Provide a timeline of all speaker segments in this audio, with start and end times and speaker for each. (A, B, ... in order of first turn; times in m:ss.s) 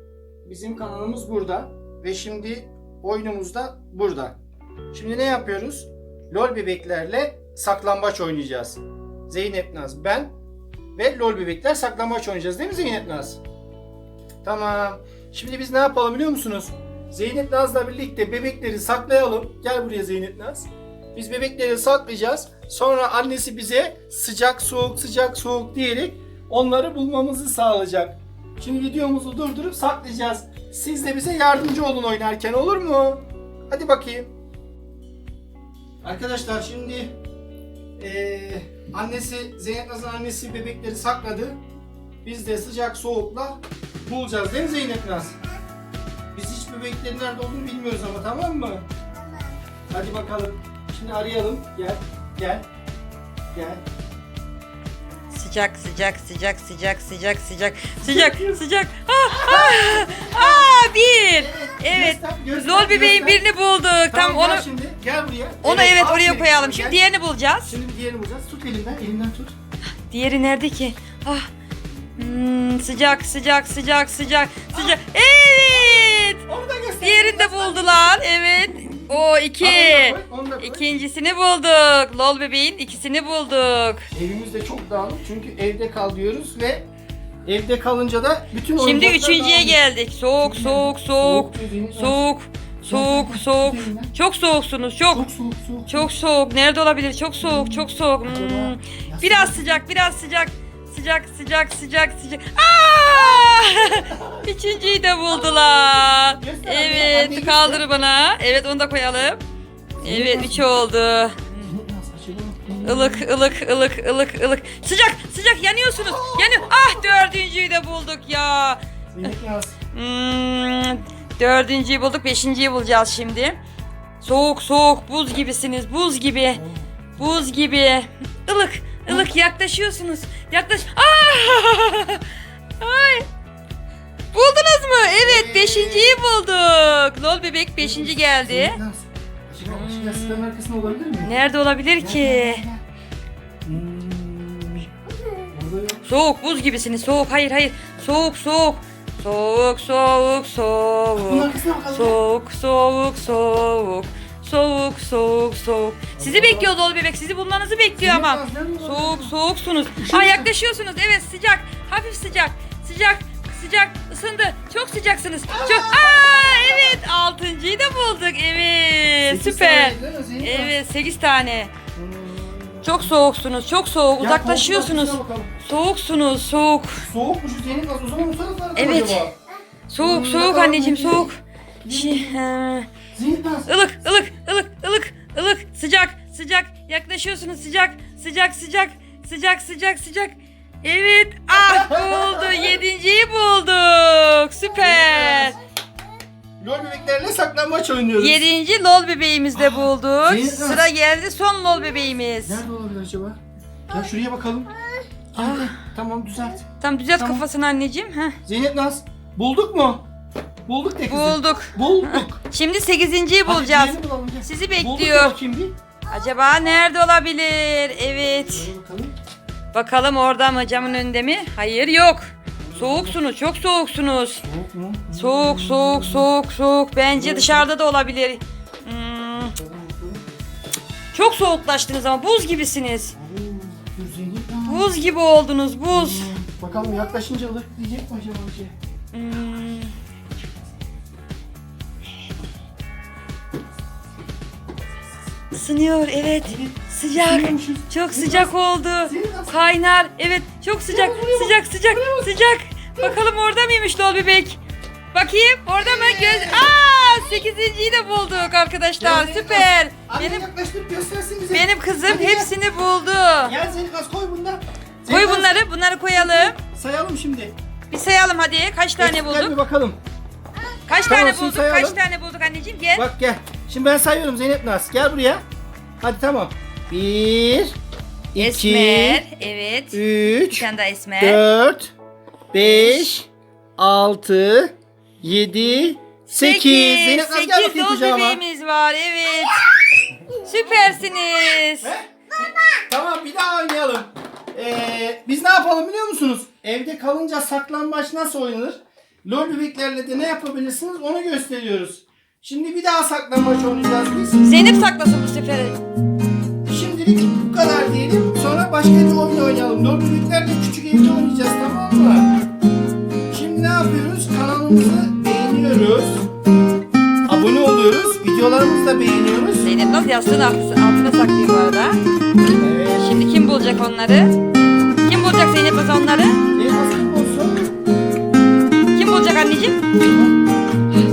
0:00.4-0:04.4 A
0:04.9-0:10.3 A
0:11.0-0:13.4 A
0:14.4-0:34.3 A
0:36.0-0:37.1 A
0:38.0-0:41.6 A
0:42.2-0:45.4 A
0:46.3-0:48.9 A
0:49.9-0:52.7 A
0:53.5-0:53.8 A
0:55.3-1:04.6 B
0:58.0-0:58.6 A
0:59.3-1:00.7 A
1:01.3-1:03.4 A
1:04.1-1:07.0 A
1:05.6-1:07.7 B
1:07.6-1:09.5 A
1:10.1-1:11.5 B
1:12.2-1:16.4 B
1:15.7-1:18.2 A
1:17.0-1:24.0 B
1:19.6-1:21.0 A
1:24.1-1:26.8 A
1:27.4-1:29.8 A
1:28.8-1:35.3 B
1:30.4-1:32.2 A
1:32.9-1:34.1 A
1:35.1-1:36.1 A
1:35.9-1:49.4 B
1:37.4-1:39.8 A
1:43.9-1:44.5 A
1:46.4-1:47.9 A
1:50.0-1:50.6 A
1:50.0-1:51.5 B
1:51.6-1:53.2 A
1:52.8-1:59.3 B
1:56.0-1:57.0 A
1:59.1-1:59.8 A
1:59.9-2:03.6 B
2:04.2-2:06.6 B
2:06.5-2:07.0 A
2:07.2-2:12.2 B
2:12.8-2:13.2 B
2:14.3-2:18.8 B
2:15.1-2:16.2 A
2:17.8-2:21.3 A
2:19.6-2:20.5 B
2:21.2-2:22.6 B
2:22.0-2:22.8 A
2:23.6-2:24.9 A
2:25.5-2:26.0 A
2:26.0-2:51.7 B
2:31.2-2:32.2 A
2:36.2-2:36.7 A
2:38.0-2:39.3 A
2:40.0-2:40.5 A
2:45.5-2:47.0 A
2:49.3-2:50.7 A
2:51.9-2:53.1 A
2:52.8-2:57.0 B
2:54.2-2:55.5 A
2:57.0-2:59.3 A
2:58.8-2:59.2 B
2:59.9-3:02.9 B
3:00.0-3:01.3 A
3:01.8-3:02.4 A
3:03.1-3:03.7 A
3:03.7-3:15.6 B
3:11.5-3:12.8 A
3:14.8-3:15.6 A
3:16.6-3:18.4 A
3:18.2-3:22.6 B
3:19.6-3:20.9 A
3:22.4-3:24.7 A
3:25.3-3:27.4 A
3:25.4-3:25.8 B
3:26.8-3:28.4 B
3:28.4-3:30.0 A
3:30.7-3:32.4 A
3:31.1-3:35.4 B
3:33.4-3:35.8 A
3:36.1-3:38.7 B
3:38.4-3:39.1 A
3:39.7-3:44.4 B
3:42.6-3:43.2 A
3:44.4-3:46.3 A
3:45.1-3:49.5 B
3:47.1-3:47.7 A
3:49.5-3:50.2 A
3:51.1-3:53.1 B
3:53.1-3:54.9 A
3:54.6-3:56.3 B
3:55.9-3:58.7 A
3:59.1-3:59.9 B
4:05.5-4:14.6 B
4:06.4-4:08.5 A
4:09.0-4:09.5 A
4:10.9-4:12.3 A
4:15.1-4:20.5 B
4:15.8-4:16.7 A
4:19.0-4:22.5 A
4:21.5-4:23.6 B
4:23.4-4:25.6 A
4:25.1-4:26.6 B
4:26.1-4:27.6 A
4:27.9-4:29.6 B
4:29.0-4:30.0 A
4:30.9-4:33.1 B
4:31.0-4:32.0 A
4:32.9-4:35.4 A
4:36.0-4:37.7 A
4:38.3-4:39.2 A
4:38.3-4:41.4 B
4:39.9-4:40.6 A
4:41.2-4:41.9 A
4:42.5-4:48.4 A
4:42.6-4:43.1 B
4:46.3-4:49.6 B
4:50.4-4:51.9 B
4:51.8-4:52.1 A
4:52.9-5:04.4 A
5:04.4-5:05.8 B
5:06.7-5:12.3 A
5:13.3-5:16.2 A
5:17.3-5:19.7 A
5:19.6-5:22.0 B
5:22.6-5:23.4 A
5:23.0-5:24.3 B
5:25.0-5:26.4 B
5:26.5-5:27.7 A
5:28.9-5:29.9 B
5:30.0-5:30.3 A